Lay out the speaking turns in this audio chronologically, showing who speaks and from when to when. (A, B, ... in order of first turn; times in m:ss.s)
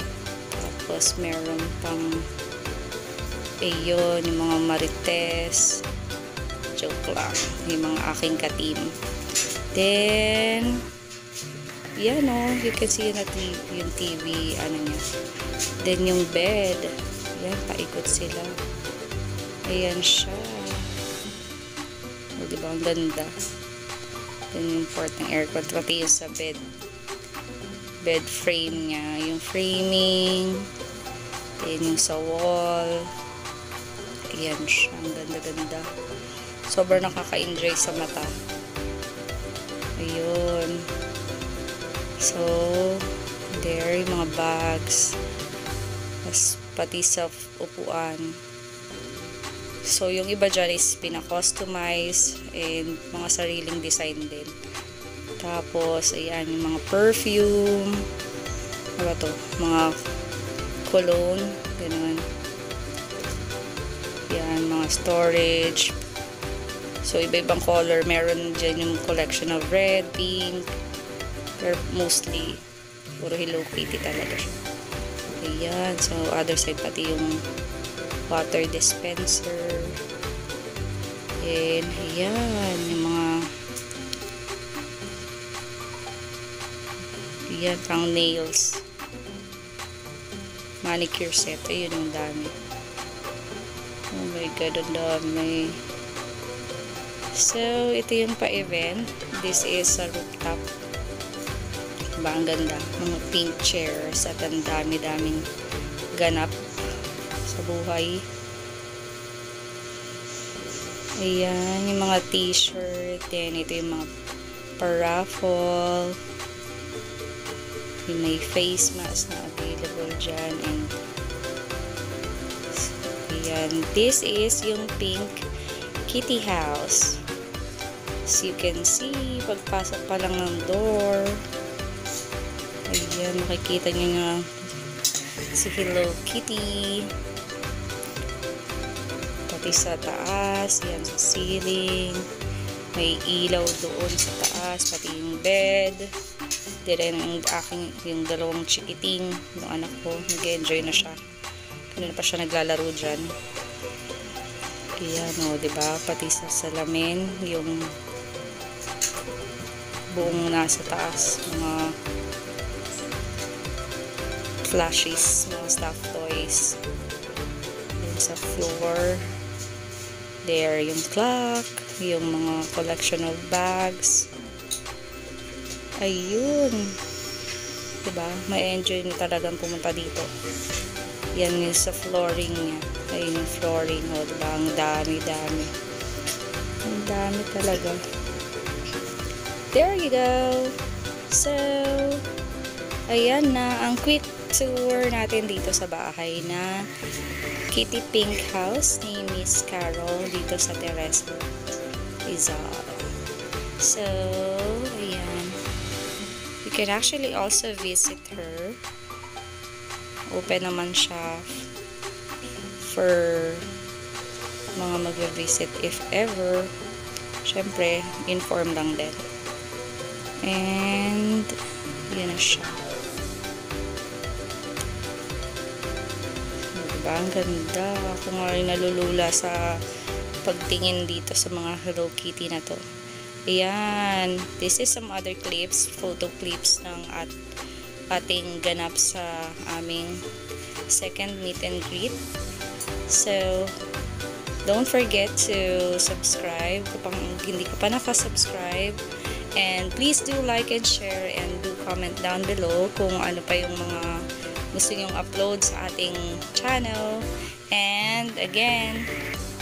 0:00.5-0:02.3 A
0:03.6-0:05.8 A
0:06.8-0:08.9 A
0:09.7-0:10.8 A
0:12.0-0:15.0 A
0:15.8-0:18.6 A
0:19.6-0:20.9 A
0:22.4-0:23.4 A
0:24.5-0:26.6 A
0:28.0-0:30.7 A
0:31.6-0:33.1 A
0:34.3-0:35.9 A
0:36.6-0:38.4 A
0:40.0-0:40.9 A
0:42.2-0:45.2 A
0:46.2-0:48.4 A
0:49.8-0:54.6 A
0:55.4-0:58.1 A
0:59.0-1:00.0 A
1:00.8-1:02.3 A
1:04.3-1:06.0 A
1:07.0-1:10.7 A
1:11.6-1:14.6 A
1:15.4-1:17.4 A
1:18.3-1:20.0 A
1:21.4-1:23.5 A
1:27.5-1:28.8 A
1:30.8-1:32.6 A
1:34.1-1:35.8 A
1:37.3-1:40.7 A
1:42.2-1:45.5 A
1:46.2-1:48.3 A
1:51.2-1:54.1 A
1:54.8-1:56.2 A
1:58.1-2:00.9 A
2:02.7-2:05.4 A
2:06.1-2:07.2 A
2:08.3-2:11.4 A
2:12.9-2:17.2 A
2:19.5-2:22.3 A
2:22.9-2:26.1 A
2:26.8-2:31.2 A
2:31.9-2:33.3 A
2:35.0-2:37.9 A
2:40.1-2:42.0 A
2:44.6-2:46.8 A
2:48.0-2:49.3 A
2:50.4-2:54.3 A
2:56.0-2:57.0 A
2:58.0-3:00.3 A
3:01.3-3:05.8 A
3:06.8-3:08.0 A
3:09.7-3:10.8 A
3:11.3-3:12.2 A
3:13.1-3:16.9 A
3:17.7-3:21.4 A
3:22.2-3:23.2 A
3:23.8-3:25.6 A
3:26.6-3:28.8 A
3:30.3-3:31.7 A
3:32.8-3:33.7 A
3:34.8-3:36.7 A
3:37.4-3:39.2 A
3:40.4-3:42.8 A
3:46.7-3:49.8 A
3:50.4-3:52.8 A
3:53.5-3:57.3 A
3:58.1-4:00.3 A
4:00.9-4:02.2 A
4:03.1-4:03.8 A
4:04.6-4:09.0 A
4:09.5-4:19.1 A